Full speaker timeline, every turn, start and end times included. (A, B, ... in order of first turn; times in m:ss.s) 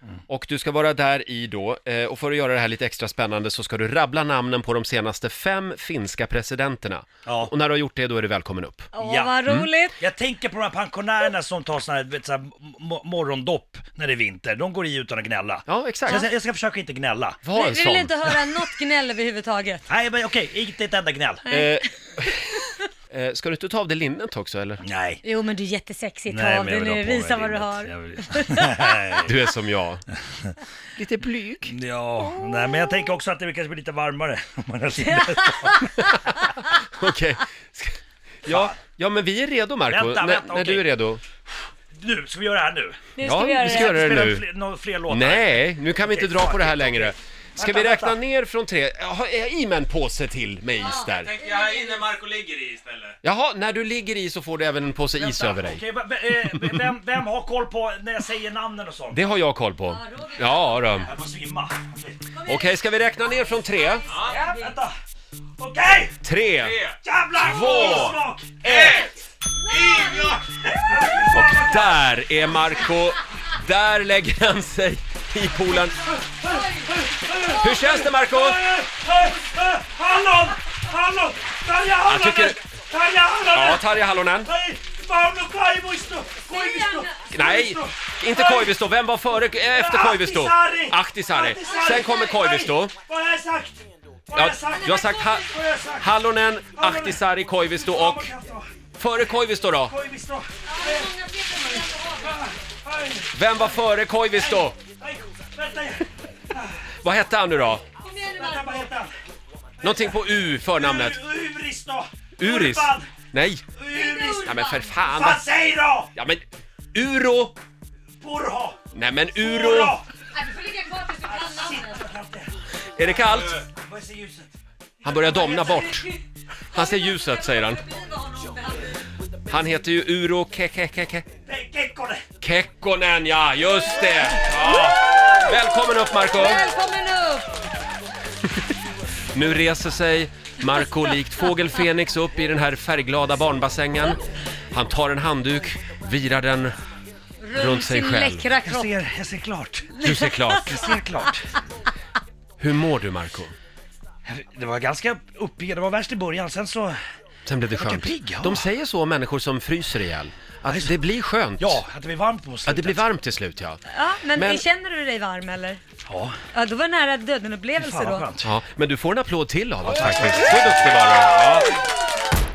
0:00.3-0:08.9 A
0:07.2-0:07.5 B
0:08.9-0:09.9 C
0:09.0-0:09.4 B
0:10.0-0:17.4 B
0:15.7-0:16.2 A
0:17.4-0:18.3 A
0:17.6-0:19.8 C
0:19.9-0:21.4 B
0:21.5-0:24.8 A
0:24.8-0:25.2 B
0:25.2-0:29.0 C
0:26.3-0:29.3 B
0:29.2-0:30.0 A
0:30.9-0:31.7 A
0:31.7-0:35.8 B
0:32.4-0:32.6 C
0:35.0-0:36.5 C
0:36.8-0:41.2 A
0:38.4-0:38.8 B
0:39.9-0:40.9 B
0:41.9-0:43.1 B
0:43.2-0:44.0 C
0:43.2-0:44.4 A
0:43.6-0:48.2 B
0:45.1-0:51.3 A
0:50.8-0:52.1 C
0:51.2-0:53.2 D
0:53.2-0:55.8 A
0:55.2-0:59.2 B
0:56.5-0:56.8 A
0:59.1-1:01.1 A
0:59.9-1:00.9 C
1:01.0-1:02.2 B
1:02.4-1:02.8 C
1:02.4-1:04.1 A
1:03.6-1:04.8 C
1:04.1-1:04.5 D
1:04.4-1:04.9 B
1:05.6-1:06.2 B
1:06.2-1:06.8 A
1:06.6-1:06.9 D
1:07.0-1:09.1 B
1:07.3-1:08.2 A
1:08.7-1:09.1 D
1:09.7-1:10.4 C
1:09.7-1:10.4 D
1:10.4-1:12.1 B
1:11.3-1:16.1 A
1:16.1-1:23.9 B
1:16.3-1:17.4 C
1:17.6-1:18.6 A
1:22.0-1:22.6 A
1:23.5-1:24.5 A
1:24.4-1:28.7 B
1:26.5-1:27.2 C
1:27.3-1:32.9 A
1:29.7-1:36.2 B
1:31.6-1:32.2 C
1:34.3-1:35.5 A
1:34.8-1:35.5 C
1:36.0-1:38.3 A
1:36.7-1:37.2 B
1:37.8-1:38.7 B
1:39.0-1:39.9 A
1:39.9-1:43.4 B
1:40.7-1:42.4 C
1:43.3-1:44.8 A
1:44.4-1:46.8 B
1:47.0-1:47.8 A
1:48.0-1:48.8 C
1:48.3-1:49.1 B
1:49.8-1:51.2 A
1:50.7-1:53.1 B
1:52.4-1:53.6 A
1:53.7-1:56.1 B
1:53.9-1:54.9 C
1:54.4-1:55.4 A
1:56.1-1:56.4 A
1:56.9-1:57.6 A
1:58.2-1:58.8 B
1:58.9-2:00.0 A
1:59.4-2:00.1 B
2:00.3-2:02.0 C
2:01.2-2:02.5 B
2:03.0-2:03.6 A
2:03.6-2:04.5 B
2:05.0-2:06.1 A
2:05.6-2:06.0 C
2:06.7-2:07.8 A
2:06.8-2:08.9 C
2:09.5-2:11.3 A
2:11.4-2:12.2 B
2:12.4-2:16.6 A
2:16.3-2:17.5 C
2:19.3-2:24.2 A
2:24.7-2:26.7 A
2:27.4-2:28.9 C
2:27.5-2:28.5 A
2:28.6-2:31.5 B
2:30.0-2:30.9 A
2:30.0-2:30.4 C
2:32.6-2:33.5 A
2:34.2-2:37.0 B
2:37.4-2:41.8 A
2:37.7-2:38.6 B
2:40.7-2:40.9 B
2:41.6-2:43.0 B
2:42.6-2:43.8 A
2:43.9-2:45.8 C
2:44.4-2:44.6 A
2:46.0-2:46.4 B
2:46.5-2:48.3 C
2:47.8-2:48.5 B
2:48.4-2:51.7 A
2:49.9-2:50.8 B